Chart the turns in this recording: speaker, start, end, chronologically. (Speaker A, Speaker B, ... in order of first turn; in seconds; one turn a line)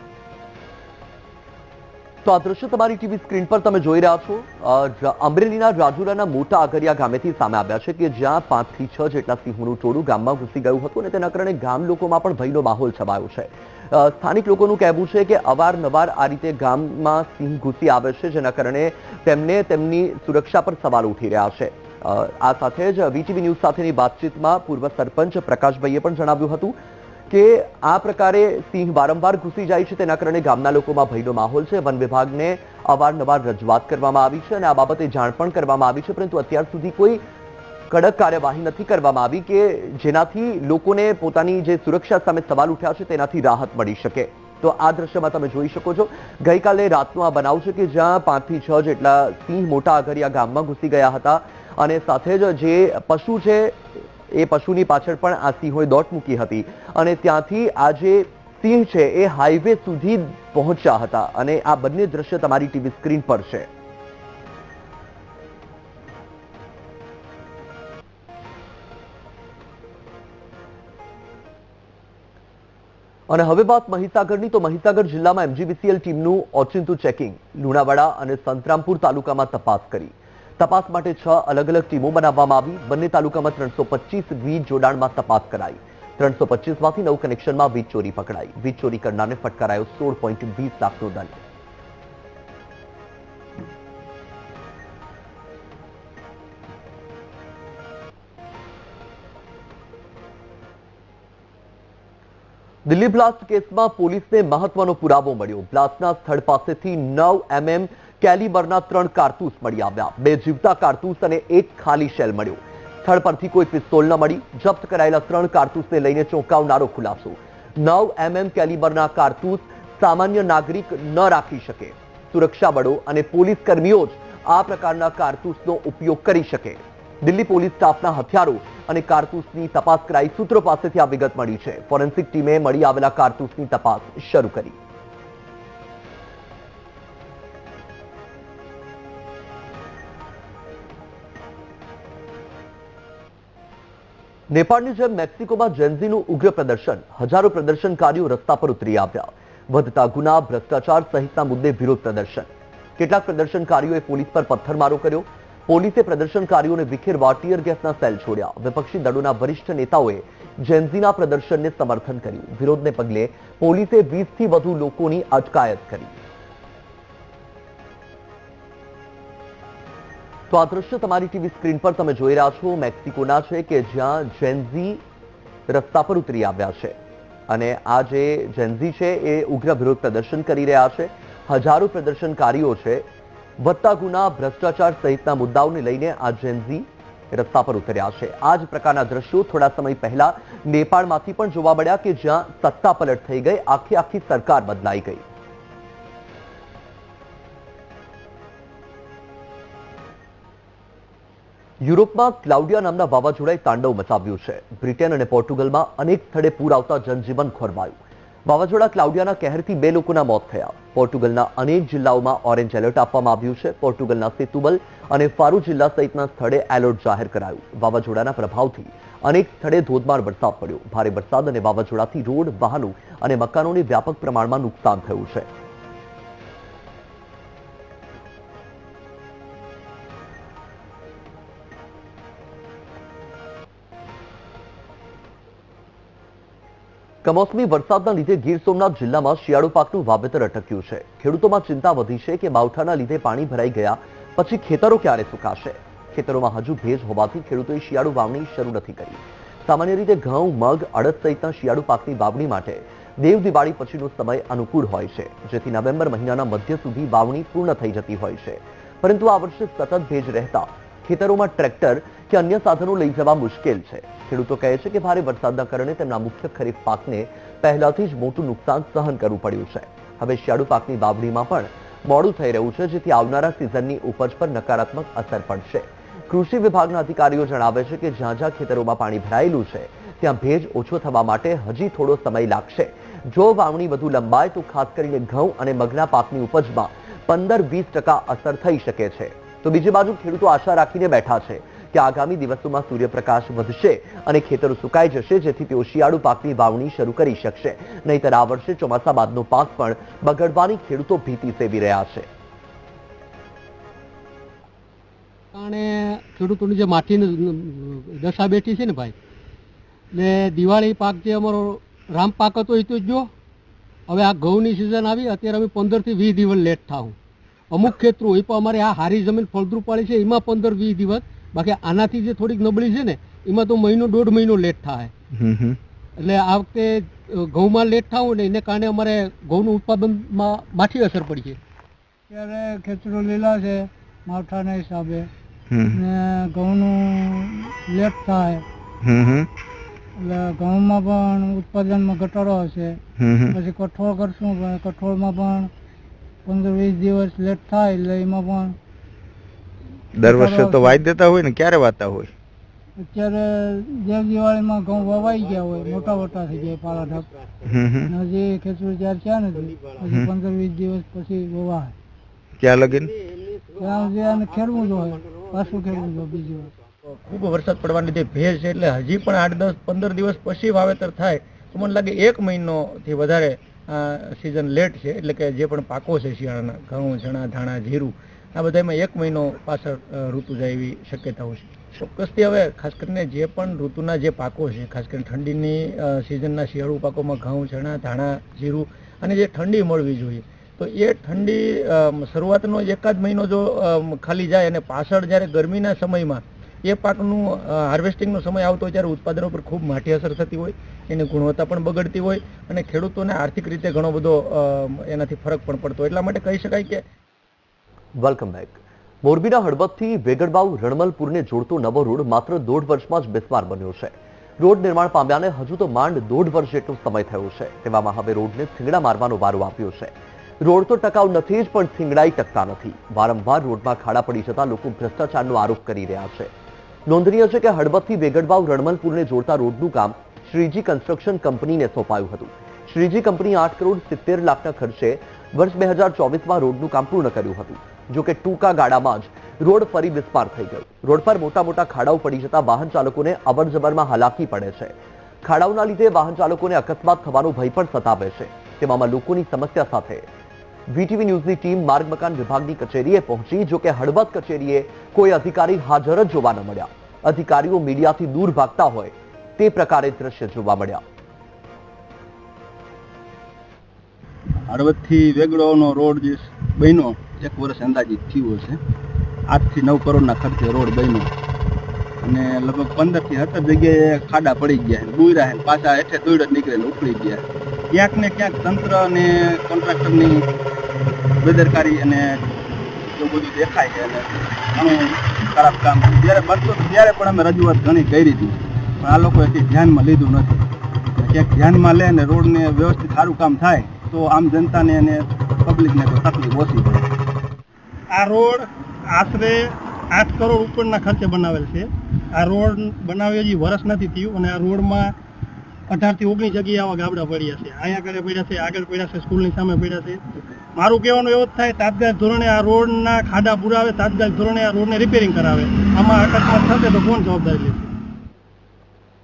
Speaker A: 2.2-26.8
Speaker A: 27.3-37.2
Speaker A: 37.9-63.7
Speaker A: 73.3-91.4
Speaker A: 102.8-134.8
Speaker A: 144.5-166.2
Speaker A: 170.5-175.0
Speaker A: 175.7-177.0
Speaker A: 177.5-183.1
Speaker A: 183.6-195.2
Speaker A: 201.8-225.5
Speaker A: 237.2-302.3
Speaker B: 305.5-309.1
Speaker B: 310.1-313.3
Speaker B: 314.1-317.2
Speaker B: 317.7-325.1
Speaker C: 325.3-325.8
Speaker B: 326.2-331.6
Speaker D: 332.3-335.3
Speaker C: 335.7-336.0
Speaker D: 335.9-338.6
Speaker C: 339.0-339.5
Speaker D: 340.2-343.0
Speaker C: 343.2-343.6
Speaker D: 343.5-345.7
Speaker D: 346.5-348.8
Speaker C: 350.2-352.3
Speaker D: 350.3-351.0
Speaker D: 353.0-357.3
Speaker C: 357.6-358.1
Speaker D: 358.1-361.9
Speaker C: 360.1-360.3
Speaker C: 362.6-363.1
Speaker D: 363.8-366.7
Speaker E: 367.2-407.0
Speaker A: 408.2-426.5
Speaker A: 427.1-450.3
Speaker A: 450.9-461.0
Speaker F: 464.7-468.8
Speaker F: 469.5-471.3
Speaker F: 472.2-480.4
Speaker F: 481.4-482.4
Speaker F: 483.1-490.6
Speaker F: 491.2-497.1
Speaker G: 498.1-505.1
Speaker G: 505.9-510.2
Speaker G: 510.8-517.9